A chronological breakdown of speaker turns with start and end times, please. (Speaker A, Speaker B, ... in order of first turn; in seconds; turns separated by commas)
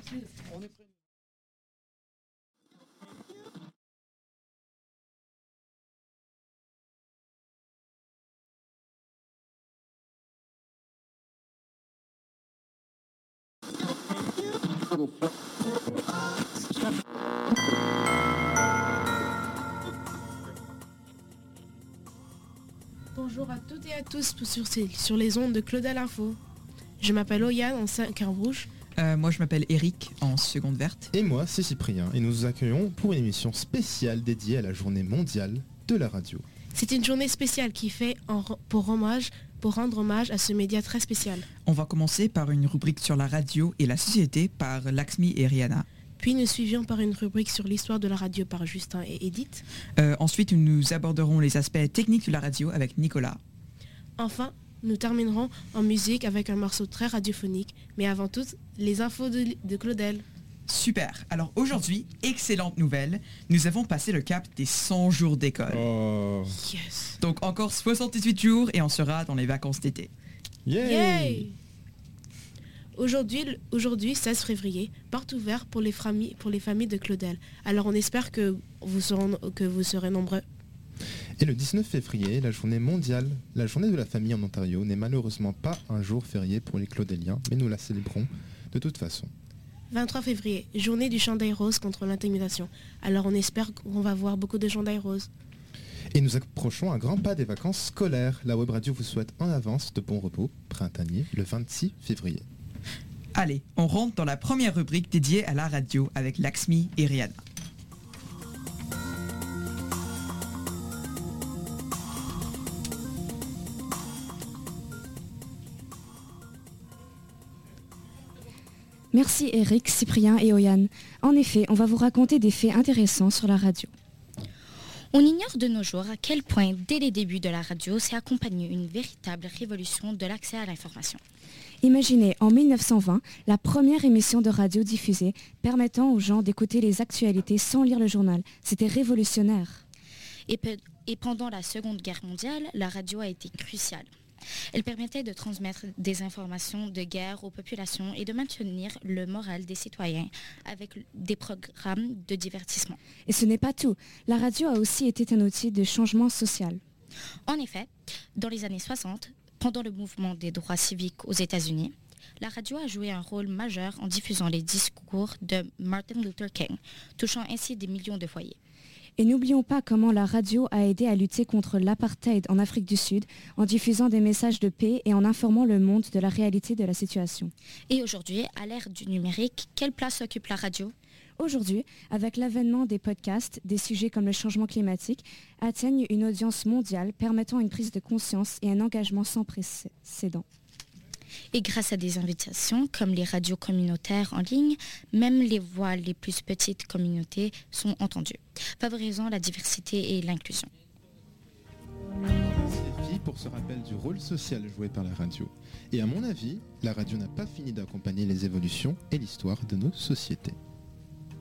Speaker A: 23.1-26.4, Speaker A: 27.0-28.7, Speaker B: 28.9-31.1, Speaker C: 31.1-36.5, Speaker A: 36.7-41.5, Speaker B: 41.6-45.9, Speaker A: 46.2-49.6, Speaker B: 50.0-53.4, Speaker A: 54.2-60.2, Speaker B: 60.7-65.8, Speaker C: 65.7-66.5, Speaker A: 66.5-67.1, Speaker B: 67.2-70.1, Speaker C: 70.7-71.5, Speaker A: 70.8-71.5, Speaker A: 73.0-80.4, Speaker C: 81.4-89.3, Speaker A: 89.9-95.3, Speaker C: 96.1-102.4, Speaker B: 103.3-107.4, Speaker D: 119.1-123.9, Speaker E: 125.1-131.2, Speaker D: 131.8-139.8, Speaker E: 140.5-144.1, Speaker E: 144.7-153.0, Speaker D: 153.3-156.8, Speaker E: 157.5-168.6, Speaker D: 169.2-177.5, Speaker E: 177.9-180.9, Speaker D: 181.4-190.4, Speaker E: 191.5-200.7, Speaker C: 202.4-210.6